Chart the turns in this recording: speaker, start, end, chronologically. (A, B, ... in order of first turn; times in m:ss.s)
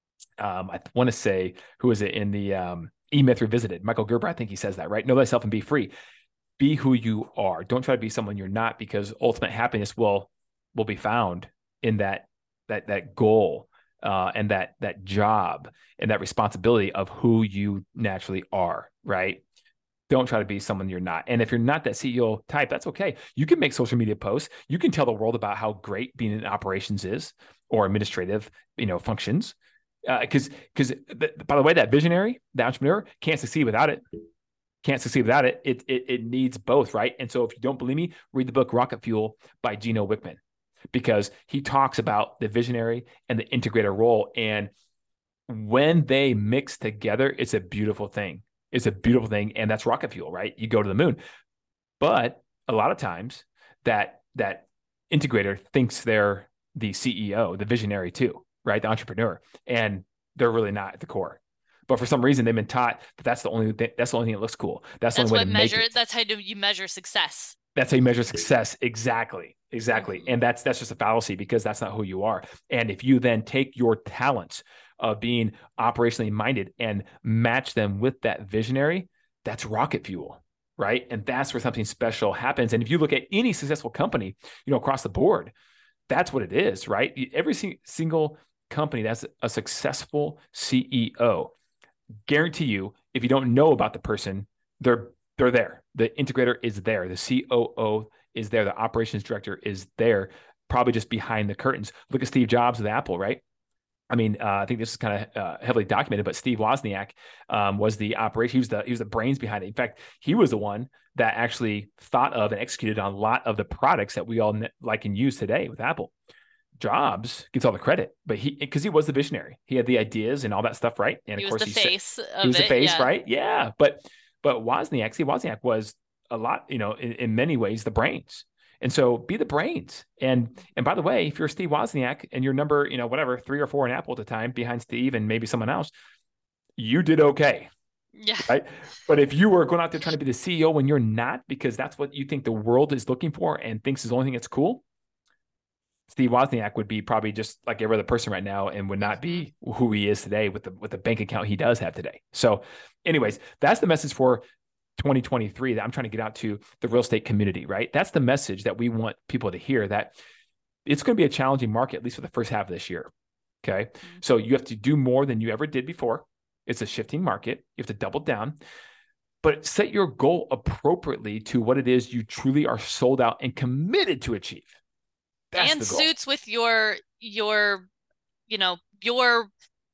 0:00.4-0:05.9 A
0:06.6-0:19.4 A
0:20.1-0:29.6 A
0:30.1-0:34.0 A
0:34.8-0:40.4 A
0:40.9-0:44.7 A
0:45.5-0:51.2 A
0:52.0-1:05.9 A
1:05.2-1:07.6 B
1:07.8-1:25.5 A
1:10.0-1:10.3 B
1:26.1-1:31.5 A
1:32.3-1:43.4 A
1:44.1-1:56.1 A
1:56.8-2:15.9 A
2:01.4-2:03.1 B
2:16.8-2:17.7 A
2:18.2-2:18.6 B
2:18.5-2:24.8 A
2:26.1-2:34.4 A
2:29.0-2:29.4 B
2:35.0-2:40.1 A
2:40.9-2:43.1 A
2:43.6-2:48.6 A
2:49.4-2:54.7 A
2:55.5-2:56.1 A
2:55.6-2:57.9 B
2:58.5-2:59.5 B